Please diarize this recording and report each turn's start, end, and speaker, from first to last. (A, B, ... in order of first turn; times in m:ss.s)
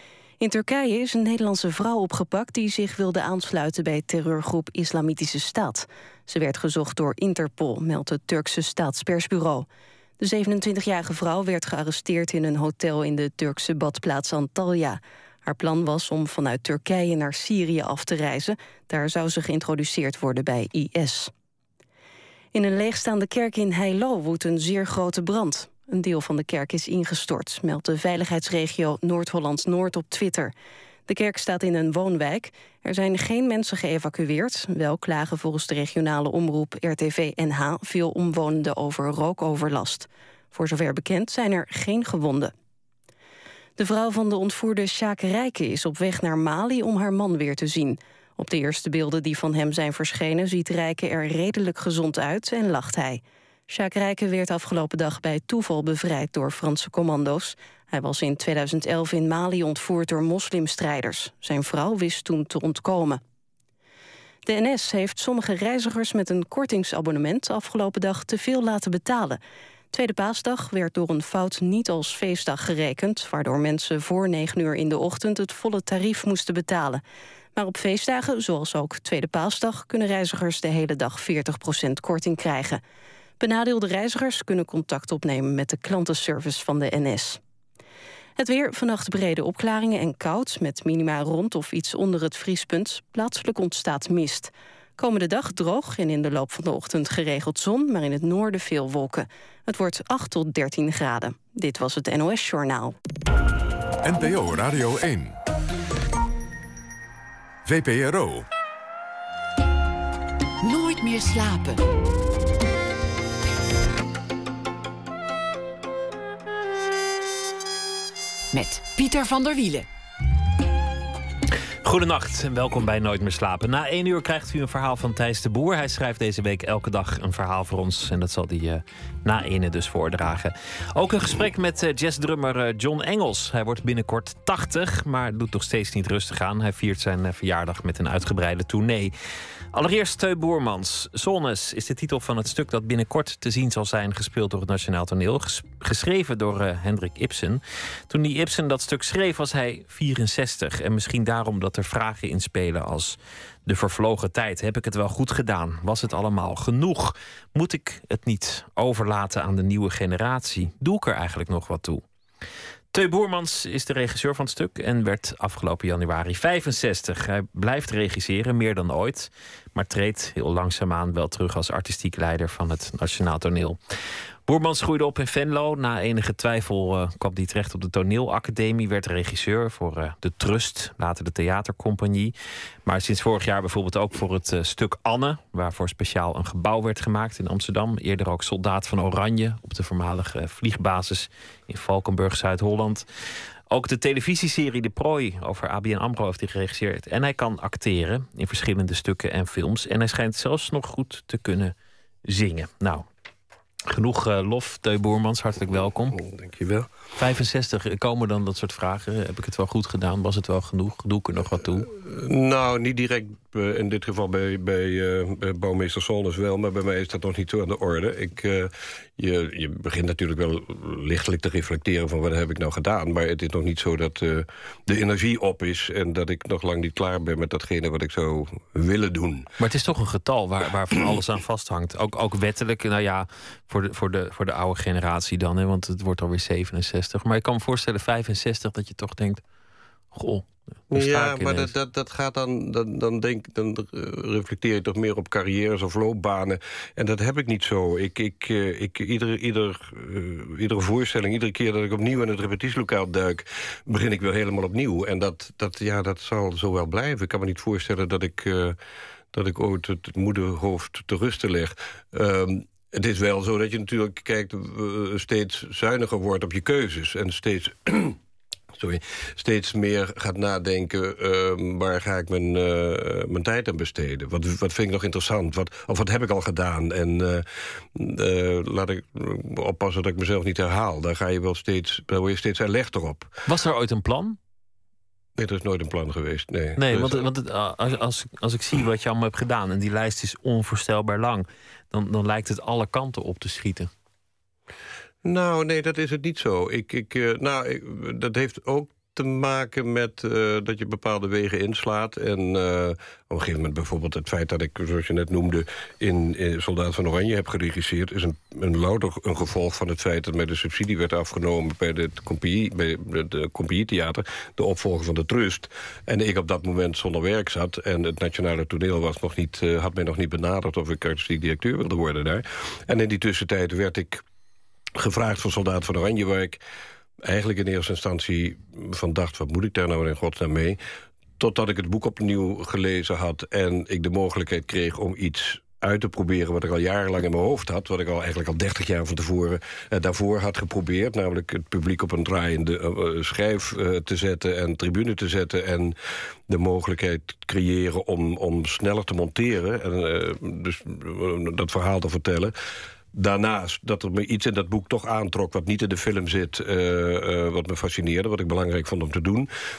0:00.4-0:09.7 A
0:10.2-0:21.3 A
0:22.5-0:30.5 A
0:31.1-0:42.5 A
0:43.8-1:03.2 A
1:04.4-1:09.4 A
1:09.9-1:17.0 A
1:17.5-1:22.8 A
1:23.4-1:27.4 A
1:28.4-1:43.0 A
1:44.0-1:45.4 B
1:47.6-1:48.5 B
1:50.6-1:51.8 C
1:58.5-1:59.9 C
2:01.8-2:19.1 D
2:19.7-2:42.0 D
2:42.9-2:53.8 D
2:54.5-3:02.3 D
3:02.8-3:13.0 D
3:13.7-3:21.7 D
3:22.2-3:23.0 D
3:23.9-3:26.2 D
3:26.2-3:26.9 E
3:27.2-3:31.9 D
3:32.0-3:49.5 E
3:49.6-3:59.4 D
4:00.1-4:01.7 D
4:00.9-4:18.8 E
4:19.3-4:28.2 E
4:28.7-4:43.3 E
4:43.5-4:44.4 D
4:45.4-4:47.3 E
4:46.8-4:53.9 D
4:55.2-5:24.2 E
5:25.0-5:26.6 E
5:27.2-5:30.8 E
5:31.4-5:46.0 E
5:46.5-5:52.5 E
5:53.1-5:59.5 E